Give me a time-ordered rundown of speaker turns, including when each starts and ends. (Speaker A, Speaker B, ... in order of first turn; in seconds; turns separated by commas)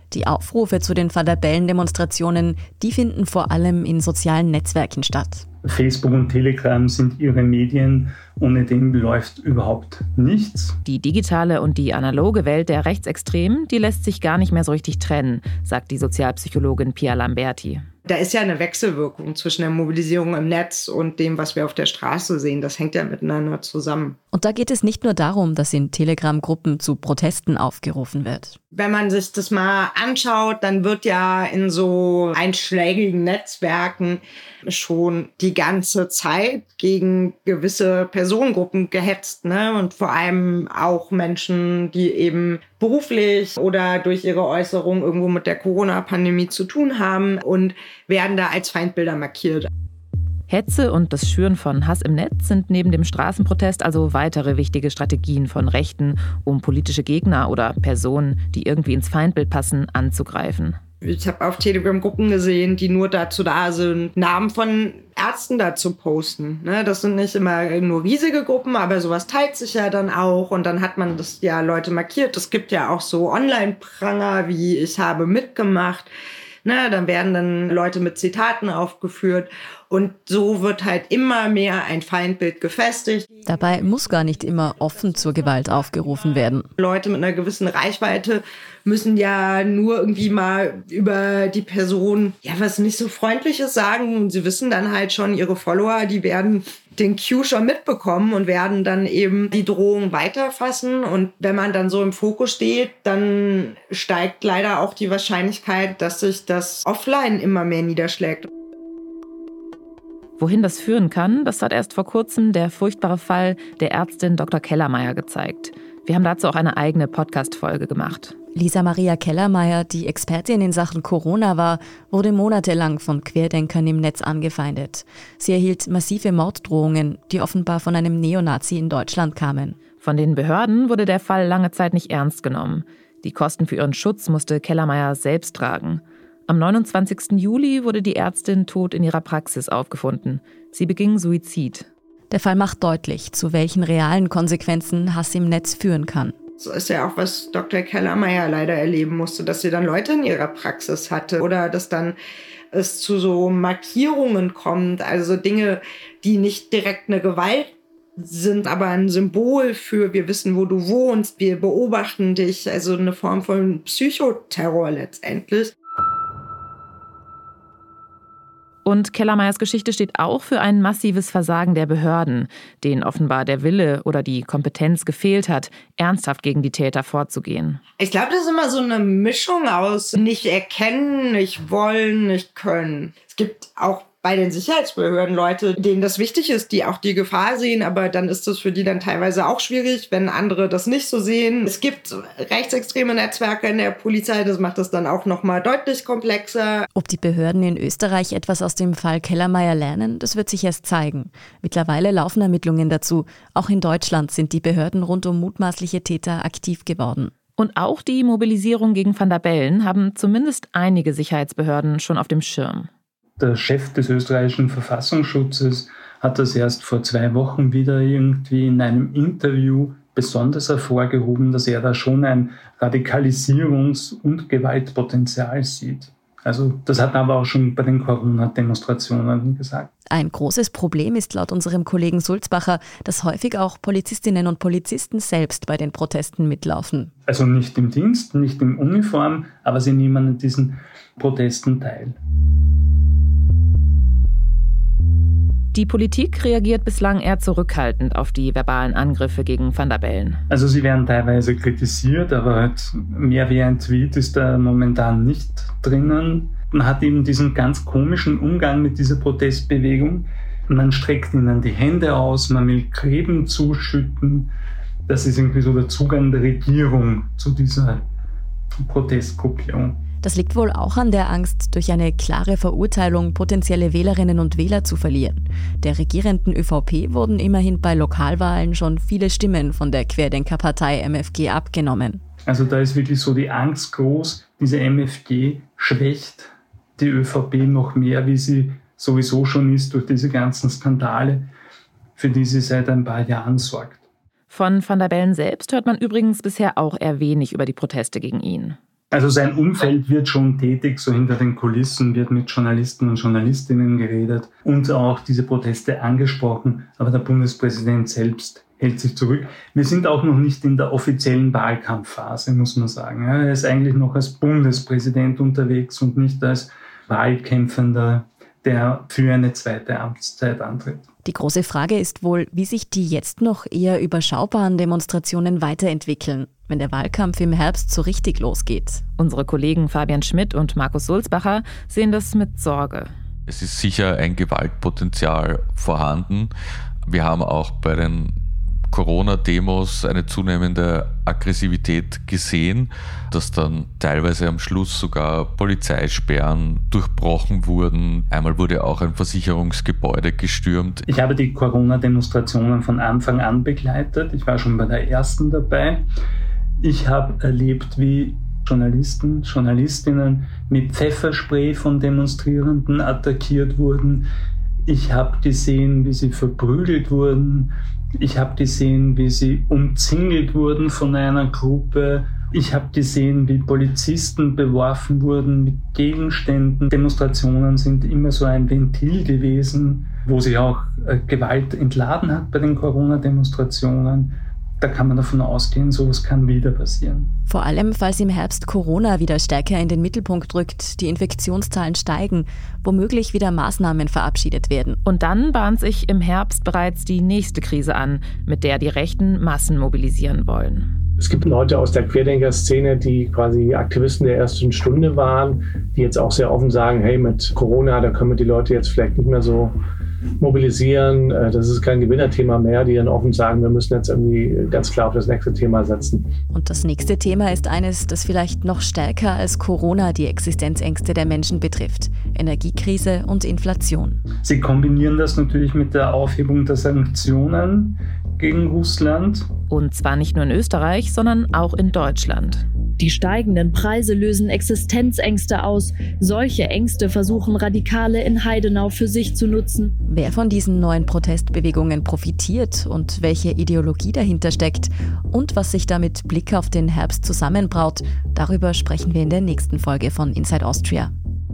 Speaker A: 0.1-5.4, Speaker B: 5.6-10.8, Speaker C: 10.8-17.9, Speaker D: 18.1-24.2, Speaker A: 24.3-28.6, Speaker D: 28.7-49.7, Speaker C: 50.5-60.8, Speaker D: 61.0-76.1, Speaker D: 76.6-83.3, Speaker A: 83.5-86.7, Speaker D: 86.8-108.5, Speaker C: 110.4-118.3, Speaker A: 118.5-129.8, Speaker C: 130.0-141.9, Speaker A: 142.3-146.3, Speaker D: 146.6-152.2, Speaker D: 152.7-165.7, Speaker C: 168.8-177.8, Speaker D: 178.0-196.8, Speaker A: 196.9-207.3, Speaker C: 207.6-212.9, Speaker B: 213.4-229.9, Speaker A: 230.1-237.1, Speaker B: 237.3-242.2, Speaker C: 245.7-250.4, Speaker B: 250.5-264.5, Speaker B: 265.1-268.0, Speaker B: 268.8-270.0, Speaker A: 270.2-282.2, Speaker B: 282.4-291.5, Speaker B: 292.2-294.0, Speaker C: 294.5-298.8, Speaker B: 299.1-321.1, Speaker A: 321.2-329.0, Speaker C: 329.2-333.1, Speaker E: 333.5-336.5, Speaker E: 337.1-338.3, Speaker E: 338.9-351.0, Speaker B: 351.1-356.1, Speaker B: 356.8-364.3, Speaker B: 364.9-387.3, Speaker A: 387.5-395.0, Speaker C: 395.1-400.9, Speaker F: 401.2-409.8, Speaker F: 410.4-416.3, Speaker A: 416.5-424.2, Speaker B: 424.4-429.5, Speaker C: 429.7-432.6, Speaker G: 433.0-440.0, Speaker A: 440.1-451.1